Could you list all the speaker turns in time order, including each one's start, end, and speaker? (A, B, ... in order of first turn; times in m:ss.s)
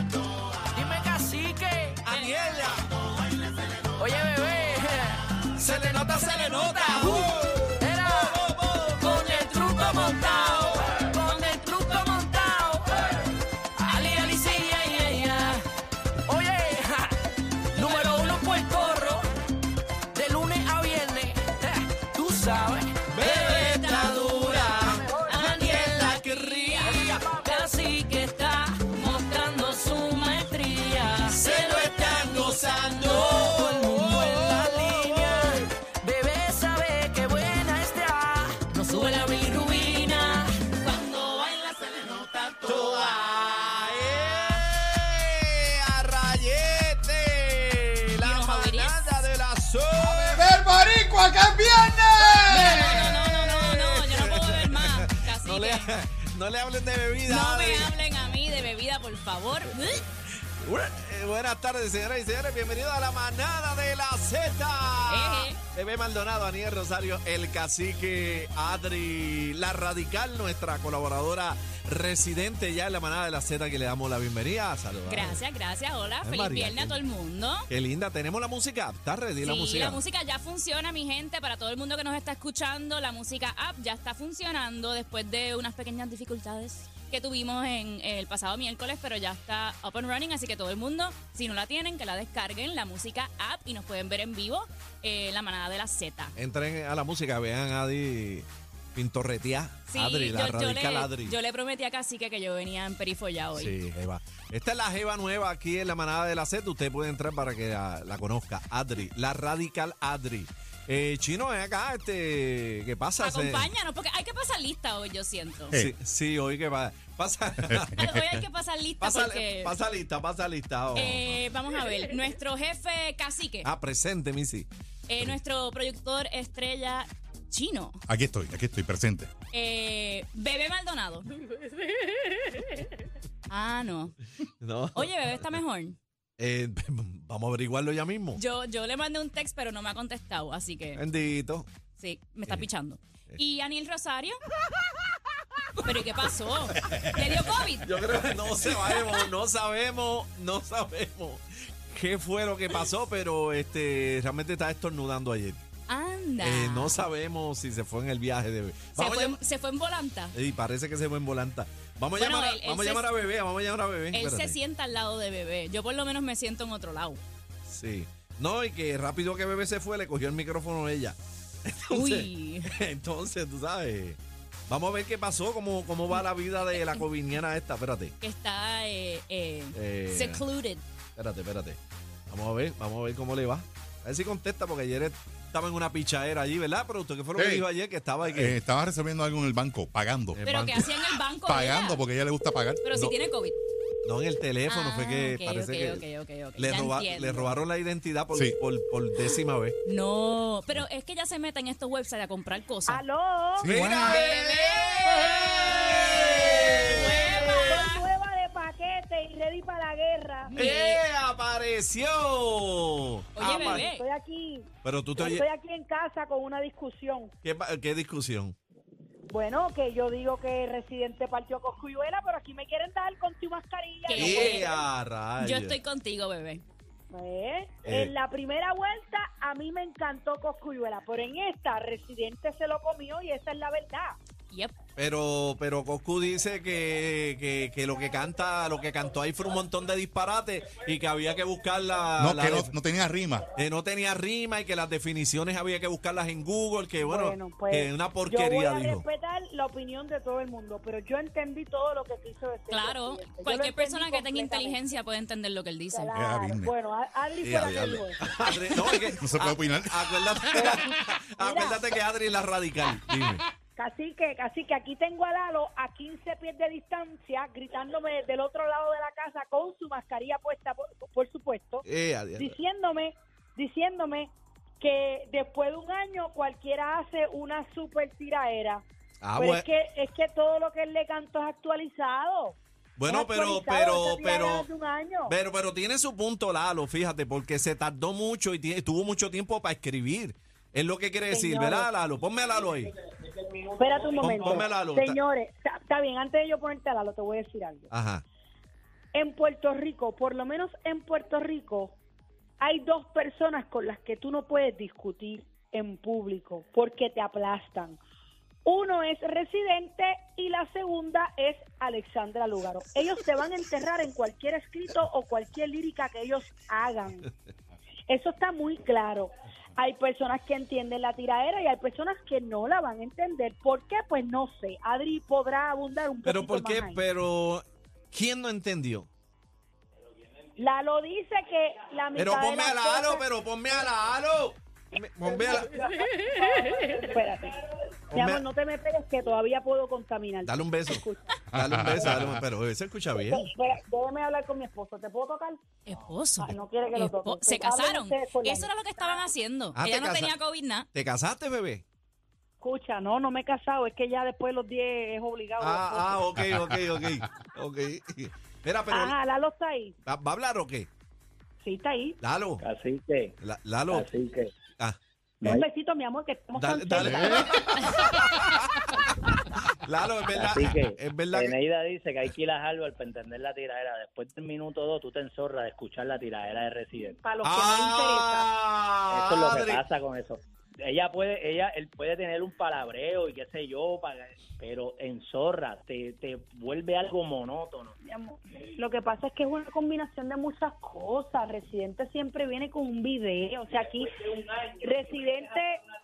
0:00.7-0:02.0 A
0:02.0-0:03.0 B
0:03.9-0:08.4 A
0:05.4-0:11.0 B
0:08.9-0:15.6 A
0:16.2-0:19.2 A
0:20.1-0:23.6 A
0:23.1-0:27.2 B
0:23.2-0:27.7 C
0:25.1-0:25.9 A
0:26.9-0:31.8 A
0:29.1-0:30.1 C
0:31.3-0:35.7 B
0:31.5-0:33.2 C
0:33.0-0:40.5 A
0:39.0-0:43.1 C
0:42.6-0:50.6 B
0:43.9-0:44.6 C
0:48.2-0:49.2 C
0:50.2-0:53.0 D
0:52.0-0:57.9 B
0:52.4-0:55.9 C
0:57.2-1:00.0 C
1:00.4-1:15.4 B
1:05.1-1:05.6 C
1:15.1-1:17.7 C
1:16.2-1:17.0 B
1:17.7-1:20.0 B
1:19.4-1:36.3 C
1:36.4-1:41.4 B
1:39.9-1:43.8 C
1:43.5-1:53.7 B
1:53.2-1:55.8 C
1:55.7-1:58.4 B
1:57.7-1:57.9 D
1:58.0-1:59.7 C
1:59.0-2:01.4 B
2:00.9-2:03.7 C
2:03.6-2:04.7 B
2:05.1-2:08.0 C
2:08.1-2:09.3 D
2:09.5-2:11.3 C
2:13.5-2:14.2 C
2:14.6-2:15.1 B
2:14.9-2:16.0 C
2:16.4-2:18.4 B
2:18.3-2:21.0 C
2:21.0-2:21.7 B
2:22.0-2:24.4 C
2:25.8-2:28.0 C
2:27.8-2:35.6 B
2:35.9-2:37.0 C
2:36.4-2:39.4 B
2:38.9-2:40.3 C
2:40.3-2:44.6 B
2:42.2-2:43.1 C
2:44.1-2:47.2 C
2:47.6-2:58.1 B
2:51.9-2:52.7 C
2:56.7-2:57.0 C
2:58.2-3:00.8 C
2:59.7-3:00.4 B
3:01.2-3:01.8 B
3:02.3-3:08.6 B
3:07.4-3:07.6 D
3:08.3-3:12.8 D
3:10.3-3:10.7 B
3:10.4-3:12.0 C
3:12.8-3:13.6 C
3:14.0-3:16.0 B
3:14.7-3:17.6 C
3:16.6-3:19.8 B
3:19.8-3:23.0 C
3:22.9-3:23.7 E
3:23.6-3:24.2 D
3:23.6-3:27.9 B
3:23.7-3:28.0 C
3:26.3-3:30.6 E
3:30.5-3:31.0 C
3:30.5-3:33.9 B
3:33.4-3:34.0 C
3:33.4-3:37.3 E
3:34.8-3:35.4 B
3:37.4-3:38.6 B
3:39.3-3:44.8 E
3:44.1-3:44.7 C
3:44.2-3:45.8 B
3:45.4-3:46.6 C
3:47.1-3:54.2 E
3:47.8-3:48.1 B
3:55.0-4:02.7 B
4:02.2-4:03.5 D
4:03.5-4:09.0 B
4:07.0-4:14.8 E
4:12.7-4:16.1 C
4:15.9-4:18.3 E
4:16.1-4:16.7 D
4:17.4-4:23.4 B
4:19.2-4:20.6 D
4:20.5-4:21.8 E
4:23.8-4:31.8 E
4:31.8-4:32.6 B
4:32.4-4:38.8 E
4:39.2-4:39.6 B
4:39.4-4:45.3 E
4:43.0-4:44.7 B
4:45.3-4:52.9 B
4:51.3-4:51.9 E
4:53.8-4:57.9 E
4:54.2-4:55.2 B
4:57.9-4:58.2 B
4:59.1-5:02.0 E
5:02.6-5:08.0 E
5:08.6-5:17.3 E
5:18.1-5:27.0 E
5:26.2-5:29.1 B
5:30.6-5:33.2 E
5:32.1-5:35.8 B
5:36.2-5:37.6 E
5:38.1-5:38.4 B
5:38.1-5:41.4 E
5:40.4-5:43.5 B
5:41.5-5:42.4 D
5:43.1-5:45.6 E
5:45.8-5:50.9 C
5:46.4-5:49.2 E
5:49.7-5:50.4 B
5:50.9-5:51.8 B
5:52.6-5:56.2 E
5:55.6-5:59.1 B
5:58.9-5:59.9 E
6:00.0-6:00.9 B
6:01.6-6:02.2 E
6:02.2-6:02.6 B
6:02.6-6:03.4 F
6:03.4-6:04.1 B
6:03.9-6:04.5 F
6:04.8-6:05.6 B
6:05.4-6:07.7 E
6:06.6-6:11.5 B
6:07.8-6:08.2 C
6:10.3-6:17.2 F
6:16.9-6:18.5 E
6:17.4-6:19.8 B
6:19.1-6:27.9 F
6:28.0-6:35.8 E